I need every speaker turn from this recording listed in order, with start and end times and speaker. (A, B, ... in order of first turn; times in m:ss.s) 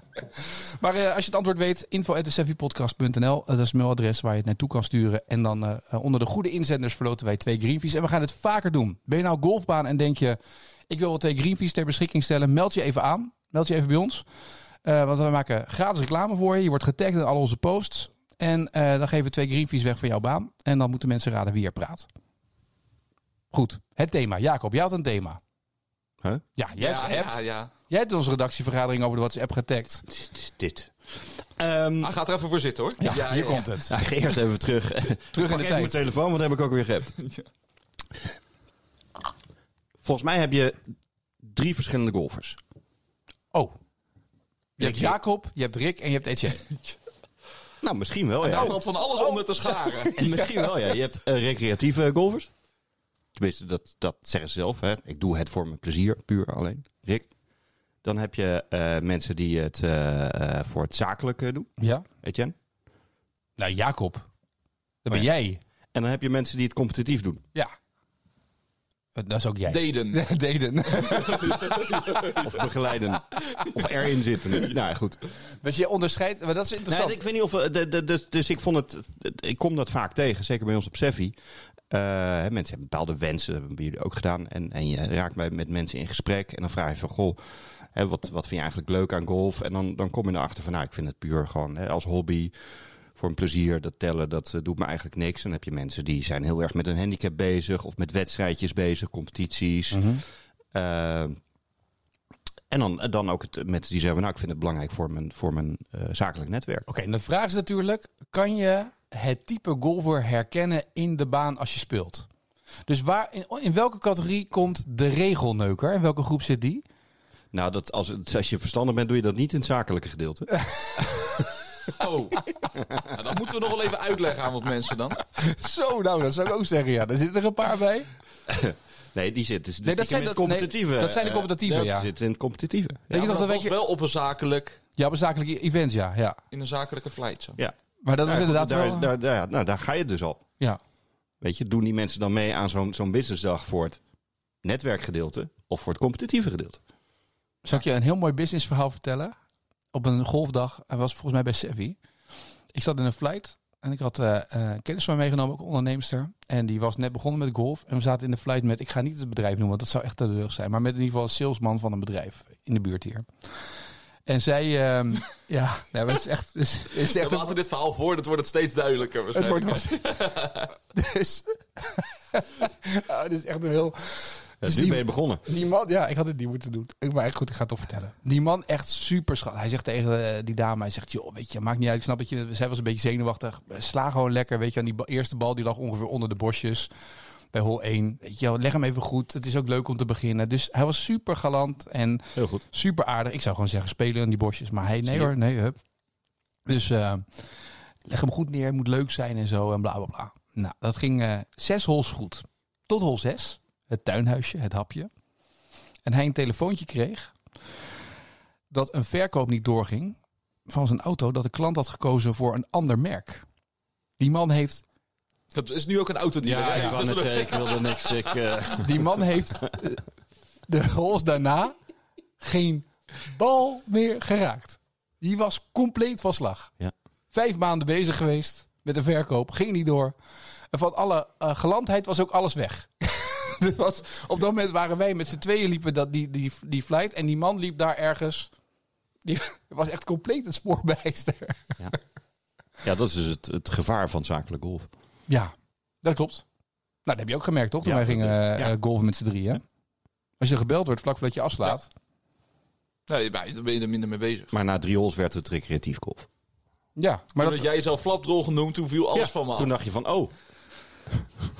0:00.4-0:10.4 A
0:10.9-0:14.2 A
0:14.8-0:22.1 A
0:23.5-0:25.4 A
0:26.6-0:30.0 A
0:26.8-0:27.7 B
0:30.1-0:30.9 C
0:31.5-0:32.1 C
0:32.0-0:33.7 B
0:33.0-0:33.9 A
0:33.9-0:37.2 C
0:35.3-0:36.0 A
0:40.0-0:40.8 C
0:41.4-0:42.6 C
0:44.8-0:46.6 A
0:44.8-0:45.2 C
0:47.8-0:48.8 C
0:48.4-0:50.2 B
0:48.4-0:50.6 A
0:50.2-0:52.5 C
0:53.4-0:57.3 C
0:58.0-1:01.7 C
1:01.8-1:02.0 A
1:02.2-1:02.5 C
1:03.6-1:04.3 A
1:05.0-1:05.6 A
1:05.9-1:07.4 C
1:09.2-1:11.8 A
1:09.7-1:10.2 B
1:11.0-1:12.5 B
1:12.4-1:15.2 C
1:15.6-1:17.2 A
1:16.9-1:21.3 C
1:21.9-1:27.4 C
1:27.9-1:32.5 C
1:33.1-1:40.1 C
1:39.9-1:40.2 A
1:40.7-1:41.4 C
1:42.7-1:46.8 C
1:46.9-1:52.3 A
1:52.9-1:56.8 A
1:57.5-2:01.4 C
2:01.9-2:05.2 B
2:05.4-2:08.1 A
2:08.5-2:13.3 C
2:09.8-2:12.1 A
2:13.1-2:13.8 A
2:13.1-2:14.8 B
2:15.0-2:16.4 A
2:16.5-2:17.6 B
2:17.6-2:20.4 C
2:18.0-2:19.1 A
2:21.4-2:24.0 C
2:24.6-2:26.8 C
2:27.6-2:29.3 A
2:29.9-2:32.0 A
2:32.7-2:43.6 A
2:44.2-2:47.6 A
2:47.0-2:50.7 B
2:49.3-2:50.2 A
2:50.9-3:06.9 A
2:54.6-2:55.4 C
3:07.5-3:15.8 A
3:12.4-3:12.6 C
3:15.0-3:15.3 C
3:16.6-3:17.5 A
3:18.0-3:25.1 A
3:26.0-3:27.3 A
3:28.7-3:33.4 A
3:34.2-3:34.8 A
3:35.5-3:38.4 B
3:36.4-3:39.4 C
3:38.8-3:40.0 A
3:40.7-3:41.8 A
3:42.4-3:46.7 A
3:47.3-3:50.1 A
3:50.7-3:58.5 A
3:59.2-4:01.8 A
4:02.8-4:04.9 C
4:05.3-4:06.4 A
4:07.0-4:09.6 A
4:07.8-4:08.7 C
4:10.4-4:11.9 A
4:13.1-4:14.5 B
4:14.5-4:16.3 C
4:17.0-4:17.6 A
4:17.4-4:19.7 B
4:19.1-4:20.3 C